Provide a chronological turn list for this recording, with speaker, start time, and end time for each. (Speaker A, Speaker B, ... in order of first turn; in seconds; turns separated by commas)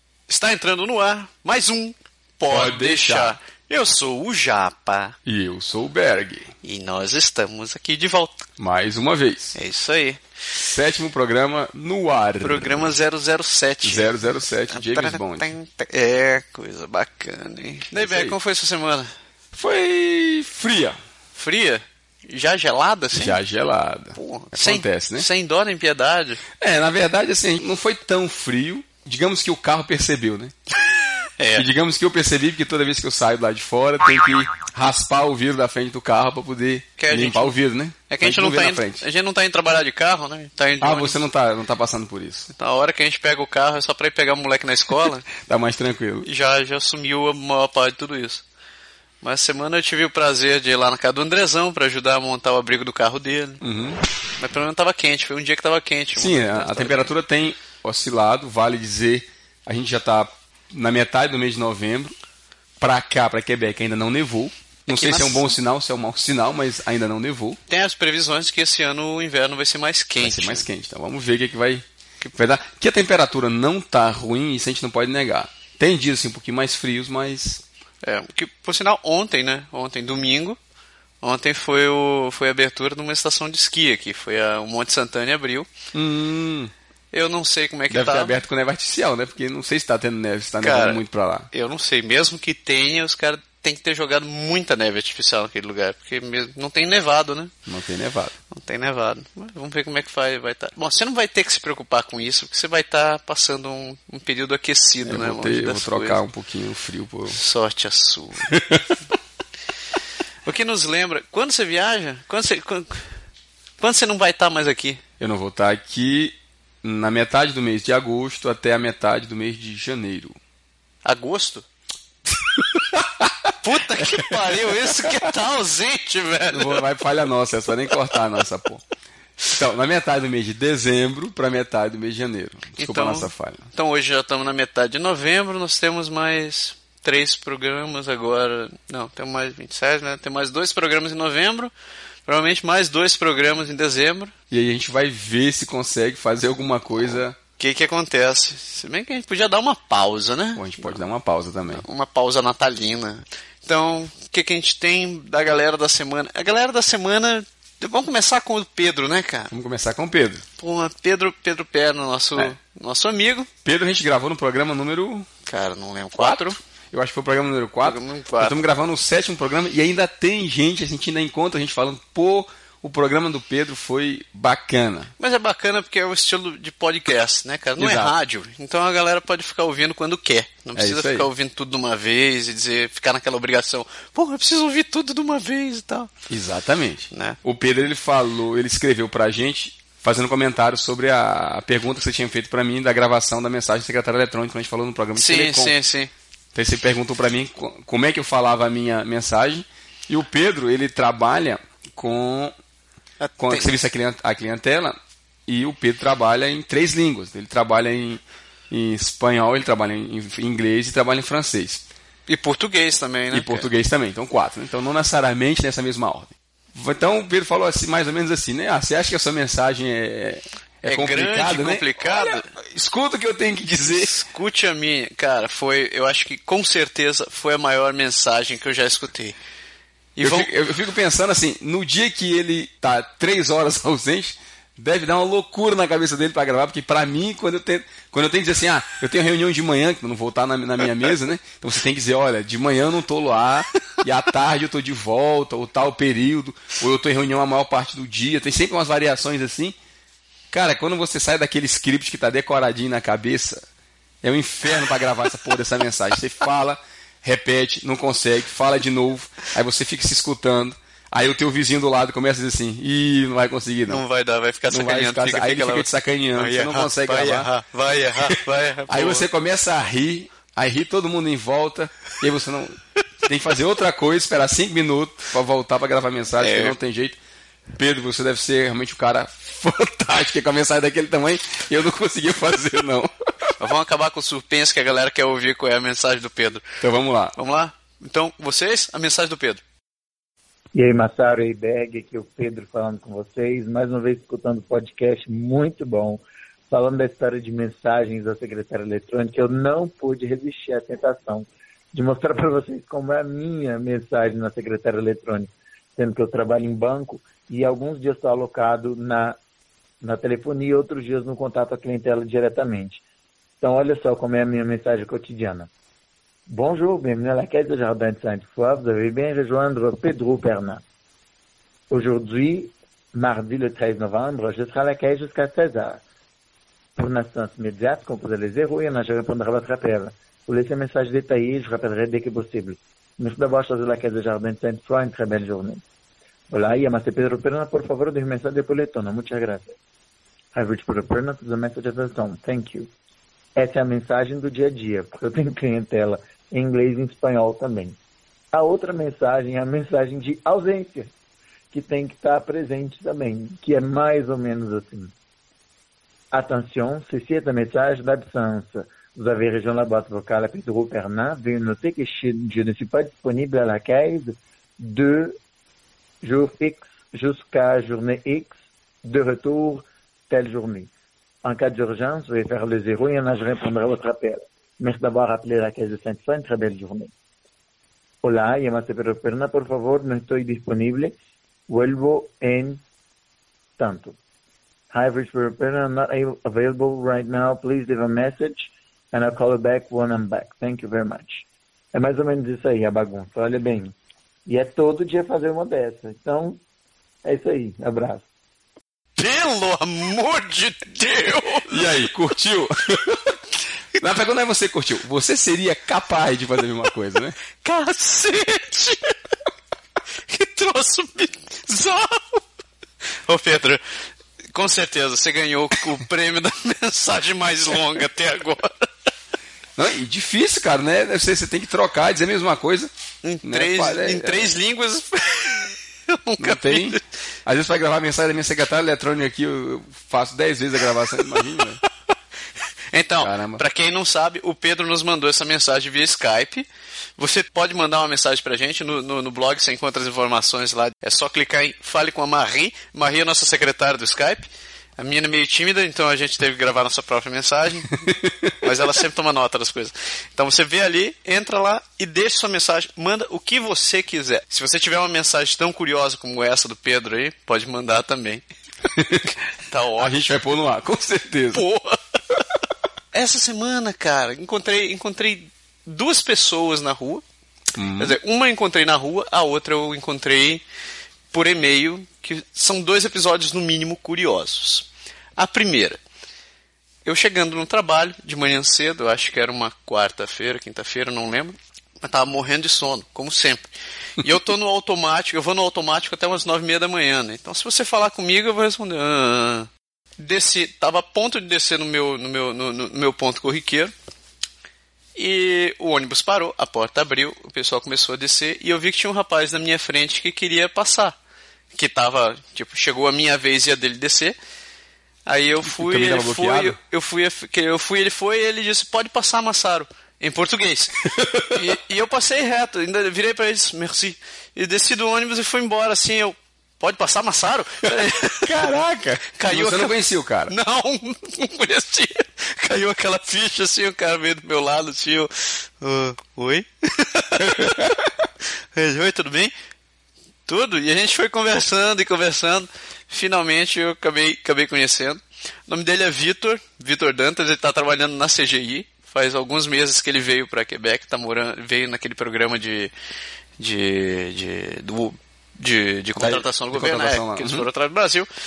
Speaker A: 0.3-5.2, Speaker B: 2.5-3.4, Speaker B: 5.2-6.5, Speaker A: 6.6-8.4, Speaker B: 8.6-9.6, Speaker A: 9.6-10.2, Speaker B: 10.6-12.9, Speaker A: 12.4-19.1, Speaker B: 13.8-15.5, Speaker B: 17.9-18.4, Speaker B: 19.6-21.0, Speaker A: 21.4-23.4, Speaker B: 23.1-25.3, Speaker A: 24.2-26.4, Speaker B: 26.6-30.5, Speaker A: 31.4-31.7, Speaker B: 31.6-39.0, Speaker A: 37.0-37.5, Speaker A: 38.1-41.2, Speaker B: 40.8-42.5, Speaker A: 42.5-45.3, Speaker B: 45.4-46.3, Speaker A: 46.2-48.4, Speaker A: 49.2-53.6, Speaker B: 53.6-54.0, Speaker A: 54.4-57.1, Speaker B: 56.2-62.1, Speaker B: 62.8-67.6, Speaker A: 64.9-65.5, Speaker A: 67.7-70.7, Speaker B: 70.2-77.6, Speaker A: 78.0-80.6, Speaker A: 81.2-85.7, Speaker B: 85.9-86.7, Speaker A: 87.1-88.4, Speaker B: 87.9-91.5, Speaker A: 90.6-97.5, Speaker B: 97.7-98.3, Speaker A: 98.5-106.2, Speaker B: 105.0-107.4, Speaker A: 107.3-108.5, Speaker B: 108.5-109.0, Speaker A: 110.5-113.1, Speaker A: 113.8-115.0, Speaker B: 115.2-120.4, Speaker A: 121.0-121.7, Speaker B: 122.5-123.5, Speaker A: 123.6-126.8, Speaker B: 124.2-125.3, Speaker B: 126.5-128.8, Speaker B: 129.5-133.7, Speaker A: 132.8-141.7, Speaker A: 142.3-144.3, Speaker B: 144.5-147.4, Speaker A: 147.1-151.0, Speaker B: 150.6-151.8, Speaker A: 151.7-159.5, Speaker B: 159.5-160.4, Speaker A: 160.6-163.5, Speaker B: 163.7-165.3, Speaker A: 165.5-166.6, Speaker B: 166.2-175.1, Speaker A: 167.8-168.6, Speaker A: 175.2-186.1, Speaker B: 177.8-178.1, Speaker B: 180.8-181.3, Speaker B: 186.3-195.8, Speaker A: 187.1-187.4, Speaker A: 195.2-196.1, Speaker B: 196.6-202.5, Speaker A: 203.2-203.7, Speaker B: 203.4-211.9, Speaker A: 212.3-213.7, Speaker B: 213.3-224.1, Speaker A: 220.9-222.5, Speaker A: 223.9-229.4, Speaker A: 230.2-230.5, Speaker B: 230.2-249.8, Speaker B: 250.5-253.7, Speaker B: 254.2-264.0, Speaker A: 263.9-269.3, Speaker B: 264.7-267.5, Speaker B: 268.9-277.2, Speaker A: 276.4-276.8, Speaker B: 277.8-283.6, Speaker A: 283.6-286.7, Speaker B: 286.8-287.4, Speaker A: 287.4-289.6, Speaker C: 290.8-309.4, Speaker C: 310.0-313.0, Speaker C: 313.6-315.7, Speaker C: 316.5-320.8, Speaker C: 321.9-326.0, Speaker C: 327.0-335.8, Speaker C: 336.5-339.8, Speaker C: 340.5-342.9, Speaker C: 343.6-348.0, Speaker C: 348.5-351.1, Speaker C: 351.7-355.1, Speaker C: 356.3-365.4, Speaker C: 366.2-368.5, Speaker C: 369.0-370.9, Speaker C: 371.4-377.1, Speaker C: 378.2-381.1, Speaker C: 381.7-382.8, Speaker C: 383.8-384.2, Speaker C: 384.9-396.6, Speaker C: 397.2-398.3, Speaker A: 399.2-401.7, Speaker B: 401.7-403.4, Speaker B: 404.0-407.4, Speaker A: 407.6-409.1, Speaker A: 410.3-412.4, Speaker A: 413.3-413.8, Speaker A: 414.5-418.8, Speaker B: 419.8-422.9, Speaker A: 423.2-427.0, Speaker B: 423.4-424.6, Speaker B: 426.4-431.8, Speaker A: 432.9-436.7, Speaker B: 433.2-433.6, Speaker A: 437.2-444.5, Speaker A: 445.0-448.0, Speaker B: 448.1-448.6, Speaker A: 448.6-458.4, Speaker B: 458.9-459.3, Speaker A: 459.6-460.3, Speaker B: 460.0-461.6, Speaker A: 461.5-462.0, Speaker A: 463.1-467.2, Speaker B: 467.8-468.2, Speaker A: 468.0-470.6, Speaker A: 471.3-476.0, Speaker A: 477.1-493.9, Speaker A: 495.1-501.2, Speaker A: 501.7-504.4, Speaker A: 505.3-511.0, Speaker B: 505.6-506.8, Speaker B: 511.0-511.7, Speaker A: 511.5-518.7, Speaker B: 518.0-520.5, Speaker A: 519.3-520.0, Speaker A: 520.5-528.0, Speaker B: 527.4-527.9, Speaker A: 528.7-529.5, Speaker A: 530.5-542.9, Speaker A: 543.6-548.3, Speaker B: 546.2-547.7